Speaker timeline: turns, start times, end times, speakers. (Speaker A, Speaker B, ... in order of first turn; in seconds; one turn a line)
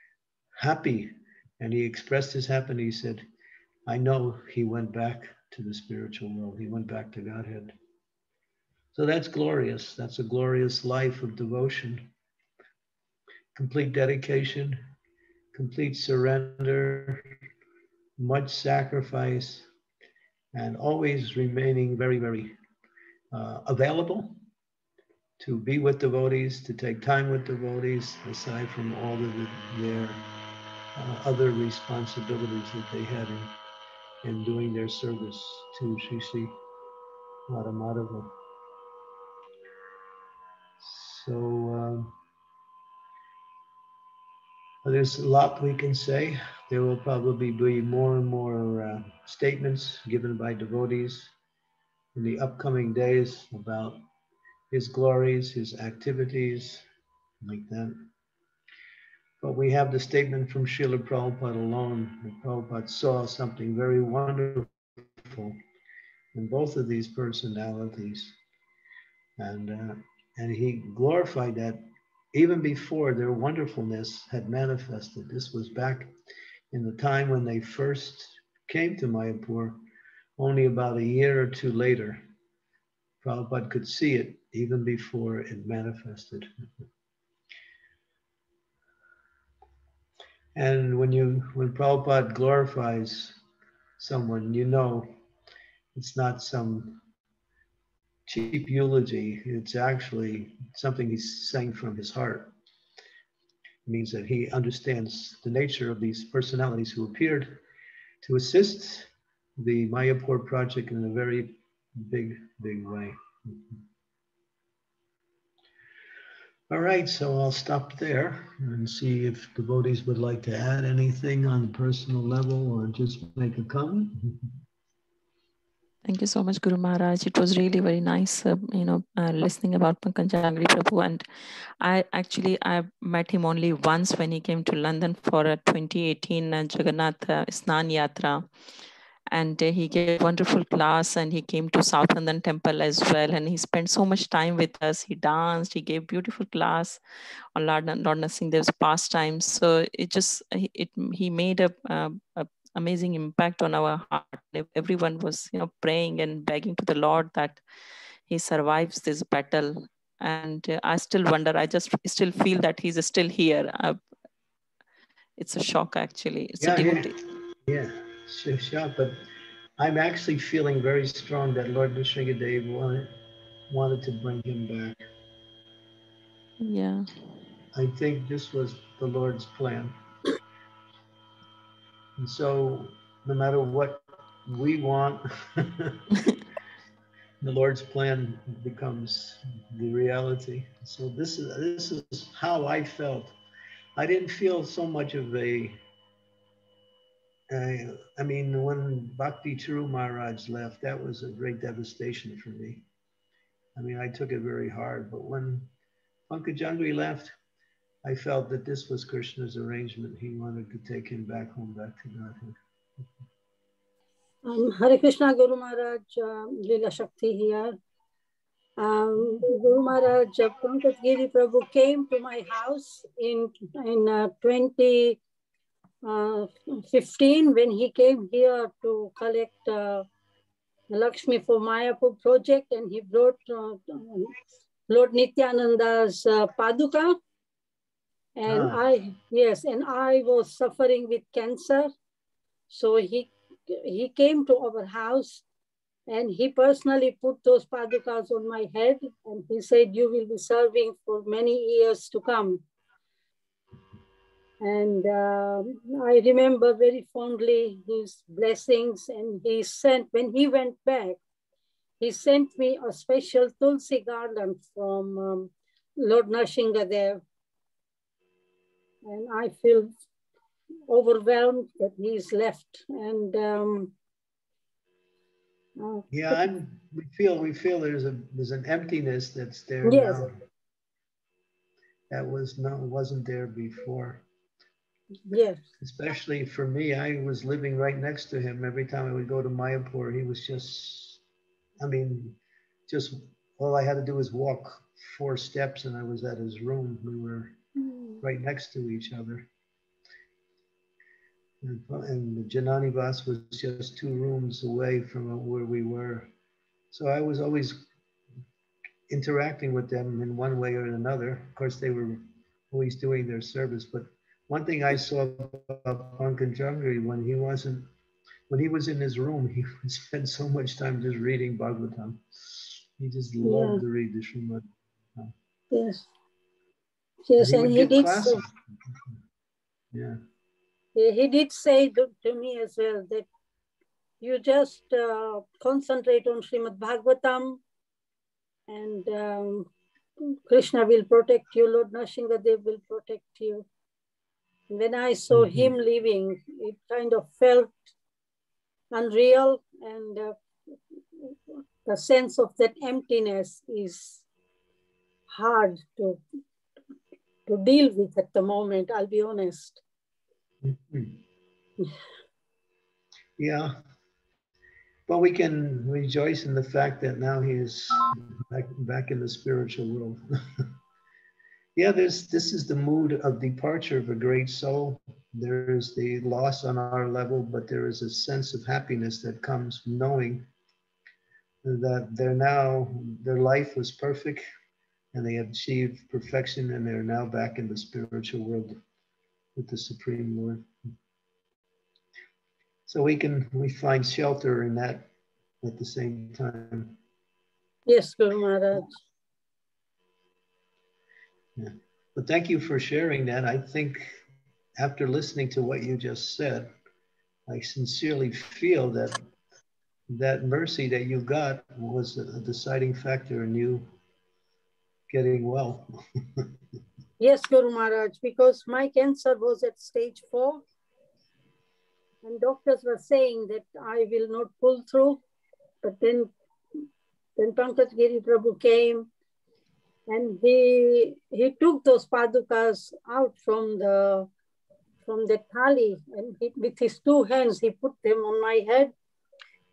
Speaker A: 0.6-3.2
Speaker A: 3.9-7.7
Speaker A: 8.9-12.1
Speaker A: 13.5-14.8
Speaker A: 15.5-17.3
Speaker A: 18.2-19.6
Speaker A: 20.5-22.6
Speaker A: 23.3-24.4
Speaker A: 25.4-30.2
Speaker A: 30.9-33.5
Speaker A: 34.2-36.6
Speaker A: 37.5-38.3
Speaker A: 40.8-42.1
Speaker A: 44.8-51.3
Speaker A: 52.1-54.0
Speaker A: 54.7-56.8
Speaker A: 57.4-58.1
Speaker A: 59.4-65.6
Speaker A: 66.3-68.3
Speaker A: 69.4-76.1
Speaker A: 76.7-79.8
Speaker A: 80.4-82.2
Speaker A: 83.2-86.5
Speaker A: 90.5-93.4
Speaker A: 94.0-95.1
Speaker A: 95.9-97.0
Speaker A: 98.3-102.5
Speaker A: 103.8-107.6
Speaker A: 108.2-113.8
Speaker A: 116.7-124.2
Speaker B: 126.0-131.2
Speaker B: 131.8-138.4
Speaker B: 139.3-147.0
Speaker B: 147.5-157.6
Speaker B: 158.3-164.0
Speaker B: 165.4-167.2
Speaker A: 166.6-167.1
Speaker A: 167.7-169.2
Speaker A: 169.8-173.1
Speaker A: 173.7-175.0
Speaker B: 176.6-177.1
Speaker A: 177.7-179.9
Speaker A: 182.2-186.0
Speaker A: 187.4-193.3
Speaker A: 193.9-195.8
Speaker A: 197.5-202.8
Speaker A: 203.8-205.7
Speaker A: 206.3-207.3
Speaker A: 208.0-212.5
Speaker C: 214.4-217.7
Speaker C: 218.8-225.2
Speaker C: 226.0-230.0
Speaker C: 230.9-234.3
Speaker C: 234.9-237.2
Speaker C: 238.4-241.9
Speaker A: 238.5-238.8
Speaker C: 242.7-245.4
Speaker C: 246.1-252.6
Speaker C: 254.6-261.2
Speaker C: 262.0-267.2
Speaker C: 269.0-269.9
Speaker C: 270.9-273.9
Speaker C: 275.8-276.4
Speaker A: 276.1-280.4
Speaker C: 279.8-280.2
Speaker A: 282.1-284.2
Speaker C: 285.3-285.6
Speaker A: 285.8-291.2
Speaker A: 291.8-292.4
Speaker A: 292.9-297.6
Speaker C: 297.8-298.2
Speaker A: 298.2-299.5
Speaker A: 301.6-306.3
Speaker A: 306.9-307.8
Speaker A: 309.1-317.9
Speaker A: 318.5-324.6
Speaker C: 323.4-323.8
Speaker C: 325.7-326.1
Speaker C: 327.3-328.4
Speaker A: 327.4-328.5
Speaker A: 329.9-330.2
Speaker C: 330.9-333.3
Speaker C: 334.2-337.6
Speaker C: 338.7-339.7
Speaker C: 340.5-343.6
Speaker C: 344.7-347.9
Speaker A: 345.3-345.7
Speaker C: 348.9-350.3
Speaker C: 351.2-354.2
Speaker C: 355.3-356.2
Speaker C: 357.5-359.8
Speaker A: 360.6-361.2
Speaker A: 363.4-363.8
Speaker A: 365.1-370.6
Speaker A: 371.8-380.5
Speaker A: 381.6-384.4
Speaker A: 385.1-388.8
Speaker A: 389.5-390.7
Speaker A: 392.9-395.1
Speaker A: 395.6-397.0
Speaker C: 397.9-398.9
Speaker A: 401.6-404.2
Speaker A: 404.8-406.7
Speaker A: 407.5-409.2
Speaker A: 410.1-413.9
Speaker A: 415.1-415.9
Speaker C: 417.2-420.6
Speaker C: 422.2-425.2
Speaker C: 425.8-426.3
Speaker C: 427.4-429.1
Speaker C: 430.1-434.3
Speaker C: 435.1-438.9